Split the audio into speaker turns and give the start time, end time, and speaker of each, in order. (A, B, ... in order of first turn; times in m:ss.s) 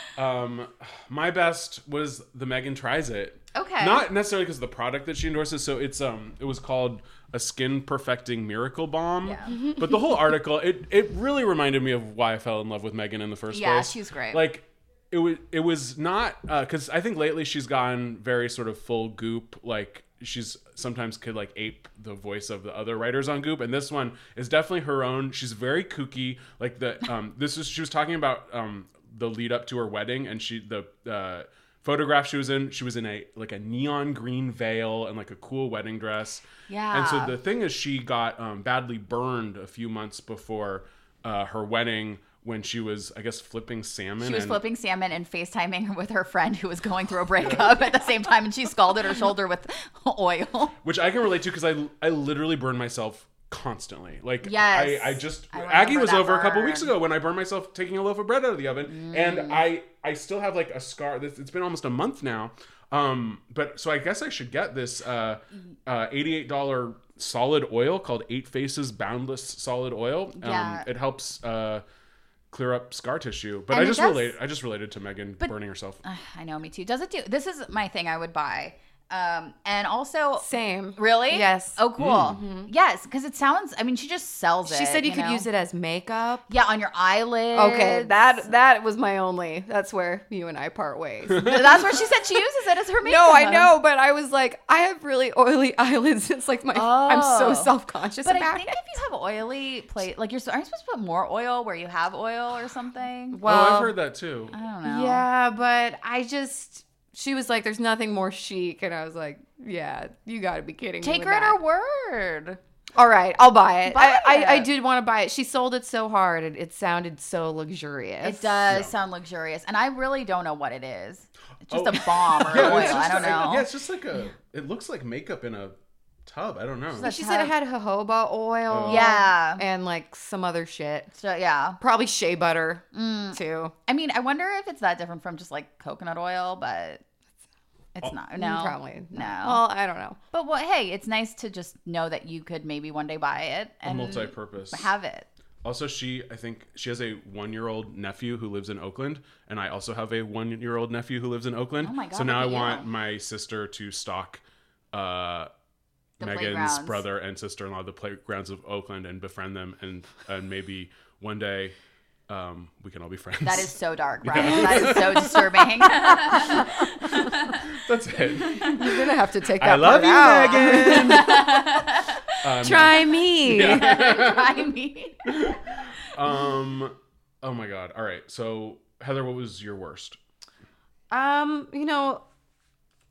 0:00.2-0:44.6 A
0:03.5-0:04.1 B
0:09.2-0:09.6 B
0:09.5-0:10.1 C
0:13.5-0:14.5 B
0:36.7-0:37.3 B
0:44.2-0:50.7 B
0:47.4-0:47.7 A
0:50.8-1:11.8 A
0:54.4-0:56.9 B
0:58.9-0:59.6 B
1:10.4-1:10.9 B
1:12.5-1:16.0 A
1:13.7-1:14.4 B
1:15.4-1:25.5 B
1:20.4-1:22.7 C
1:22.0-1:22.4 A
1:24.7-1:26.5 C
1:26.5-1:28.5 B
1:27.5-1:32.0 C
1:31.4-1:31.8 A
1:31.4-1:33.7 B
1:33.0-1:38.8 C
1:36.7-1:43.4 B
1:43.3-1:44.0 C
1:43.4-1:44.5 A
1:44.5-1:45.3 B
1:44.8-1:51.6 C
1:51.0-1:52.6 B
1:53.0-1:58.7 C
1:53.9-1:54.7 B
1:58.2-2:03.7 B
1:58.7-1:58.9 A
2:01.7-2:07.1 A
2:02.4-2:03.5 C
2:06.9-2:07.5 B
2:07.0-2:11.1 C
2:08.7-2:09.1 A
2:08.9-2:09.6 B
2:11.1-2:11.8 B
2:11.8-2:13.7 C
2:12.9-2:17.0 B
2:18.0-2:19.6 B
2:18.4-2:20.2 C
2:20.3-2:25.3 B
2:23.8-2:24.9 A
2:25.6-2:35.5 A
2:31.8-2:32.9 B
2:36.2-2:41.8 A
2:36.2-2:37.0 B
2:42.3-2:49.0 A
2:43.4-2:47.6 B
2:48.4-2:48.7 B
2:48.8-2:51.5 C
2:49.6-2:51.5 A
2:50.5-2:52.4 B
2:52.4-2:54.6 A
2:52.6-2:53.9 C
2:53.6-2:55.9 B
2:55.2-3:00.2 A
3:01.1-3:02.2 C